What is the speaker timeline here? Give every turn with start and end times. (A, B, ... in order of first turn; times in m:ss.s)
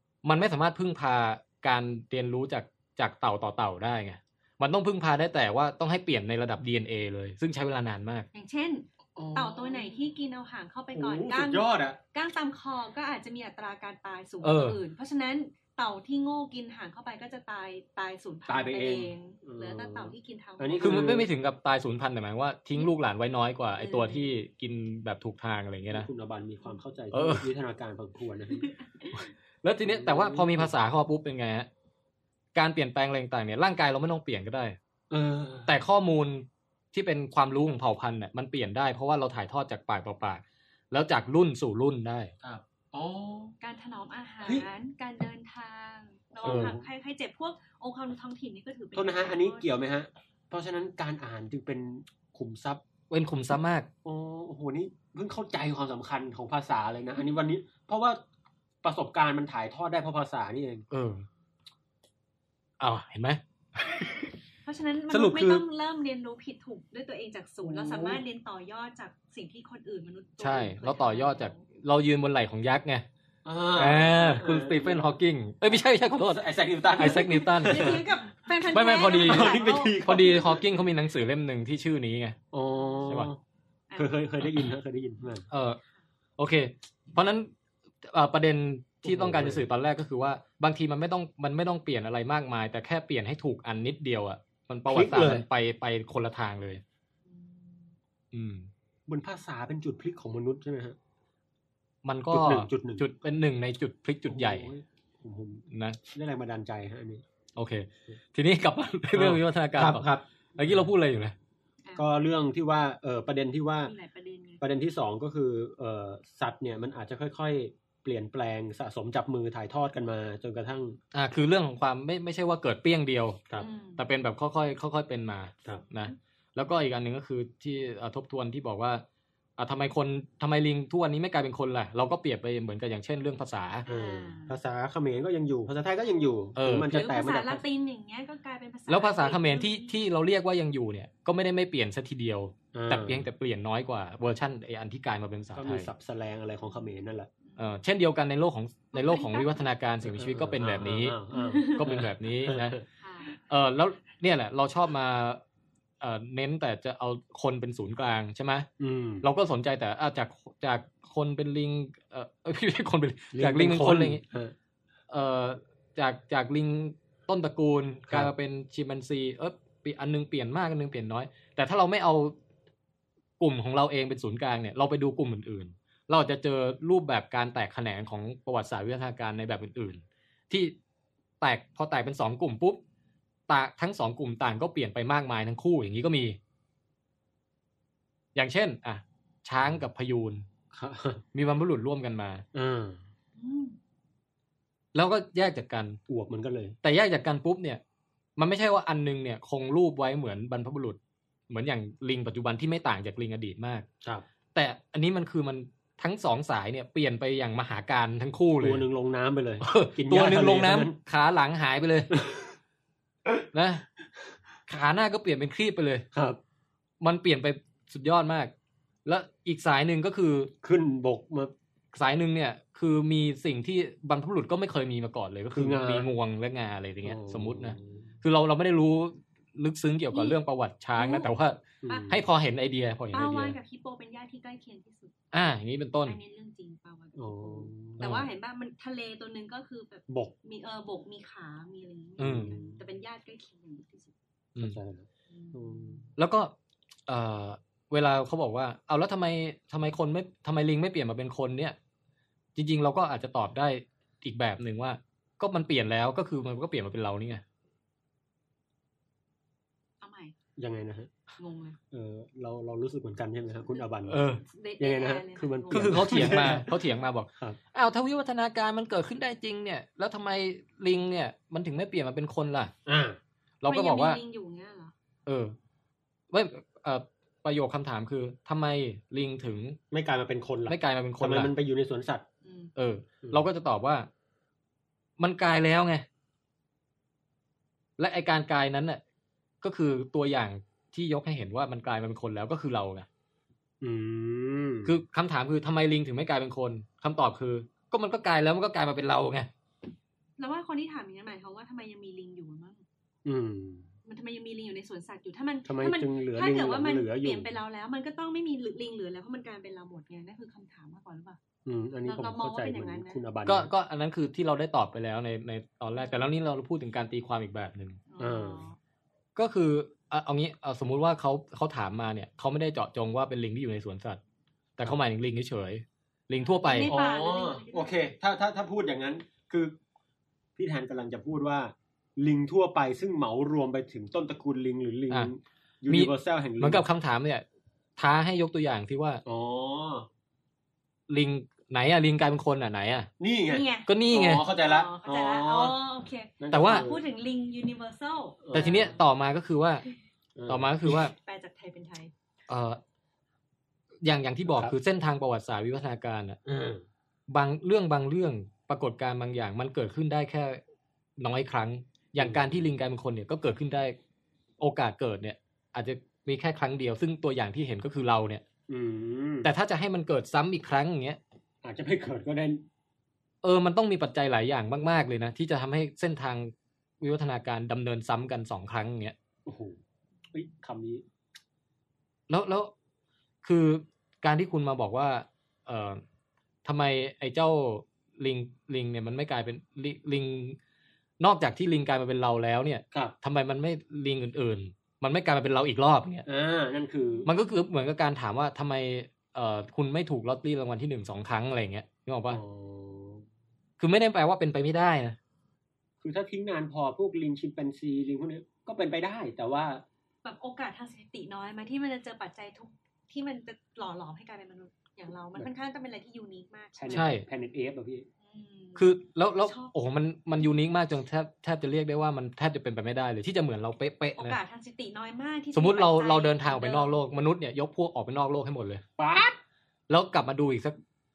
0:00.2-0:08.3 A
0:08.3-0:21.2 B
0:09.2-0:10.1 C
0:10.9-0:12.0 C
0:14.4-0:14.8 A
0:18.5-0:21.3 C
0:20.8-0:26.1 A
0:23.8-0:24.4 B
0:25.9-0:29.2 C
0:27.1-0:27.5 A
0:28.8-0:29.1 B
0:29.6-0:31.7 A
0:29.8-0:30.7 C
0:32.5-0:34.8 A
0:35.1-0:35.7 C
0:35.7-0:42.3 A
0:42.4-0:43.5 C
0:43.6-0:49.7 B
0:46.4-0:46.8 C
0:46.4-0:46.7 A
0:48.9-0:52.8 C
0:53.1-0:53.9 A
0:54.0-0:58.2 C
0:58.8-1:00.8 C
1:00.9-1:01.2 A
1:02.8-1:04.2 A
1:04.6-1:11.6 B
1:05.1-1:05.6 A
1:07.6-1:08.2 C
1:10.4-1:13.0 A
1:13.4-1:15.1 C
1:13.8-1:18.0 A
1:16.3-1:18.0 C
1:17.1-1:20.0 B
1:18.7-1:22.4 A
1:19.2-1:20.6 C
1:22.5-1:23.4 C
1:24.0-1:25.5 C
1:25.5-1:25.8 A
1:26.4-1:27.5 A
1:28.0-1:36.8 A
1:29.0-1:29.6 C
1:34.9-1:35.4 C
1:37.3-1:37.9 B
1:38.3-1:38.7 A
1:39.1-1:41.0 C
1:42.0-1:44.7 A
1:42.3-1:43.0 C
1:44.3-1:47.2 C
1:45.7-1:46.0 A
1:47.6-1:51.3 A
1:49.1-1:50.8 C
1:52.0-1:53.9 C
1:53.8-1:54.6 B
1:54.6-2:01.0 C
2:01.1-2:03.4 A
2:03.6-2:04.1 B
2:04.0-2:09.0 A
2:09.6-2:13.8 A
2:13.9-2:14.6 B
2:13.9-2:17.6 C
2:16.6-2:17.0 A
2:16.7-2:20.0 B
2:18.9-2:25.9 A
2:22.7-2:23.3 C
2:25.5-2:27.3 C
2:27.4-2:27.8 B
2:27.6-2:31.2 A
2:28.9-2:29.6 B
2:30.0-2:32.8 C
2:31.3-2:31.9 B
2:31.7-2:32.8 A
2:33.0-2:33.3 B
2:33.4-2:35.4 A
2:36.0-2:38.7 A
2:38.8-2:39.2 C
2:39.2-2:44.2 A
2:43.3-2:44.5 C
2:45.1-2:52.3 A
2:53.4-3:00.7 A
3:01.4-3:02.8 A
3:03.5-3:06.4 A
3:08.3-3:10.4 A
3:10.7-3:11.2 C
3:11.3-3:12.4 A
3:12.5-3:13.0 C
3:13.4-3:13.8 B
3:14.9-3:16.0 A
3:16.1-3:16.8 C
3:16.8-3:17.8 A
3:18.4-3:21.0 A
3:21.5-3:23.8 A
3:24.5-3:28.8 A
3:28.6-3:31.0 C
3:29.6-3:32.1 A
3:33.5-3:33.8 A
3:34.7-3:36.0 A
3:36.1-3:36.4 C
3:37.0-3:38.5 A
3:39.0-3:40.5 A
3:40.6-3:41.5 C
3:41.9-3:53.6 A
3:45.5-3:46.1 C
3:47.0-3:48.1 C
3:50.1-3:50.4 B
3:51.0-3:51.3 B
3:51.8-3:52.2 C
3:53.1-3:55.1 B
3:55.3-3:56.2 A
3:56.0-4:04.1 B
3:57.2-3:58.1 C
3:58.0-3:58.3 A
4:02.2-4:02.8 C
4:02.2-4:02.6 A
4:04.6-4:06.1 C
4:05.3-4:06.0 B
4:06.2-4:06.5 A
4:07.1-4:11.8 A
4:12.5-4:17.4 A
4:20.0-4:20.3 B
4:20.6-4:21.1 C
4:21.4-4:21.8 B
4:21.9-4:26.7 C
4:23.7-4:26.6 B
4:24.1-4:24.4 A
4:25.7-4:32.7 A
4:32.8-4:33.2 C
4:33.6-4:34.2 A
4:33.6-4:34.9 B
4:35.2-4:35.6 A
4:36.3-4:39.8 A
4:39.9-4:42.2 C
4:40.7-4:41.5 A
4:42.4-4:42.7 B
4:42.8-4:44.1 A
4:45.2-4:46.0 A
4:48.0-4:49.0 A
4:49.6-4:53.1 A
4:53.8-4:55.0 C
4:54.8-4:59.5 A
5:00.4-5:02.8 B
5:03.2-5:03.9 C
5:04.0-5:11.4 B
5:05.6-5:07.5 C
5:11.6-5:13.7 C
5:12.0-5:13.2 B
5:13.4-5:18.0 A
5:18.1-5:18.8 B
5:18.2-5:18.6 C
5:19.4-5:24.2 A
5:24.8-5:27.0 A
5:26.4-5:28.1 B
5:26.8-5:29.8 C
5:30.6-5:36.8 C
5:35.9-5:37.4 A
5:38.0-5:39.2 A
5:39.2-5:40.1 C
5:41.1-5:43.1 A
5:43.2-5:45.8 C
5:43.5-5:49.0 B
5:43.9-5:44.4 A
5:46.4-5:47.0 C
5:46.5-5:46.9 A
5:48.4-5:48.9 C
5:48.5-5:49.8 A
5:50.4-5:51.0 C
5:50.5-5:51.1 A
5:51.1-5:52.1 B
5:52.5-5:52.8 A
5:54.0-5:56.4 A
5:54.5-5:54.7 C
5:56.4-5:56.8 C
5:57.3-6:00.6 A
6:01.2-6:04.0 A
6:02.2-6:02.6 C
6:04.6-6:08.4 A
6:08.7-6:09.5 C
6:09.4-6:11.2 A
6:11.6-6:12.6 C
6:13.4-6:19.2 A
6:19.4-6:19.8 C
6:20.3-6:21.0 C
6:22.3-6:22.7 A
6:23.4-6:26.0 A
6:26.6-6:30.6 A
6:31.2-6:36.2 A
6:36.3-6:37.3 C
6:37.2-6:42.4 A
6:42.3-6:43.2 C
6:43.8-6:45.2 A
6:46.0-6:49.8 C
6:50.2-6:57.0 B
6:56.8-6:58.1 C
6:56.9-6:57.2 A
6:58.2-6:59.7 B
6:58.8-7:04.4 A
7:04.2-7:07.0 B
7:05.5-7:08.8 A
7:09.0-7:09.4 C
7:09.9-7:10.8 A